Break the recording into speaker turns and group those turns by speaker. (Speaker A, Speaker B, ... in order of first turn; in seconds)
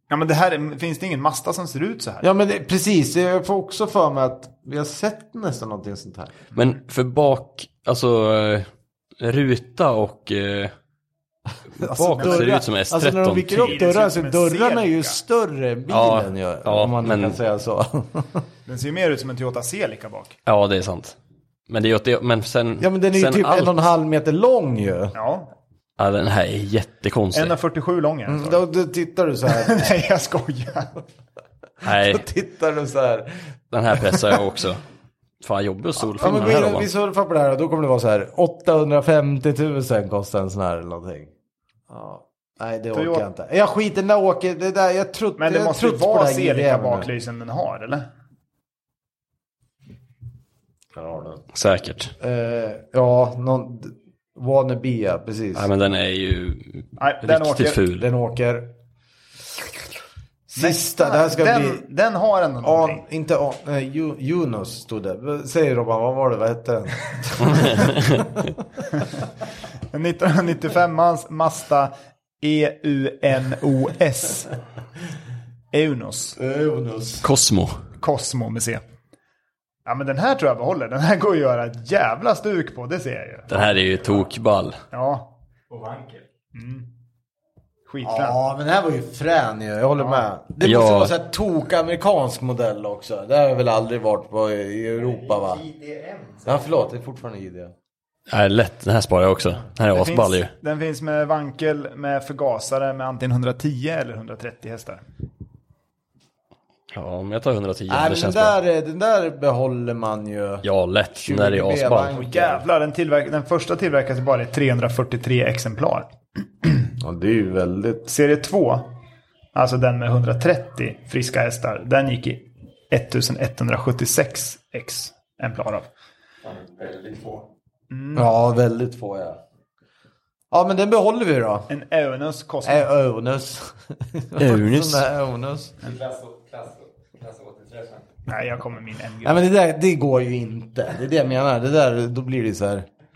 Speaker A: 0.1-2.3, 12.2-12.6, 13.6-15.2, 18.7-20.4, 25.1-25.5, 27.3-28.6, 29.5-30.9, 42.9-43.3, 45.4-48.1, 57.0-57.8, 60.5-63.0, 69.9-74.5, 75.7-76.4, 78.0-78.8, 79.8-84.2, 84.9-85.3, 86.5-86.9, 87.9-88.4, 90.0-90.2, 99.9-105.0, 112.2-116.1, 116.6-116.9, 118.1-118.9, 119.5-125.9, 127.9-128.3, 131.7-132.9, 138.3-139.4
Speaker B: 2.2-6.3, 11.8-18.4, 22.8-25.1, 28.3-29.9, 31.8-33.5, 36.1-41.3, 41.9-47.1, 51.0-51.4, 52.2-55.7, 58.0-58.7, 60.5-61.8, 62.6-68.0, 76.4-77.3, 88.0-95.6, 96.5-97.7, 107.9-110.7, 111.2-112.6, 117.0-118.1, 128.2-129.4, 130.5-131.7, 132.7-135.7, 139.2-142.9
Speaker C: 6.5-8.7, 9.2-10.7, 11.8-13.8, 15.9-17.4, 20.5-21.2, 21.7-23.8, 26.0-27.5, 31.8-32.2, 33.7-34.8, 35.4-36.9, 51.5-52.1, 55.5-58.1, 67.7-68.2, 77.2-77.8, 83.5-84.8, 90.6-91.1, 98.3-100.5, 106.9-108.6, 110.6-112.2, 134.4-135.0
Speaker D: 85.7-86.3, 95.0-96.8, 126.4-127.5, 135.8-138.2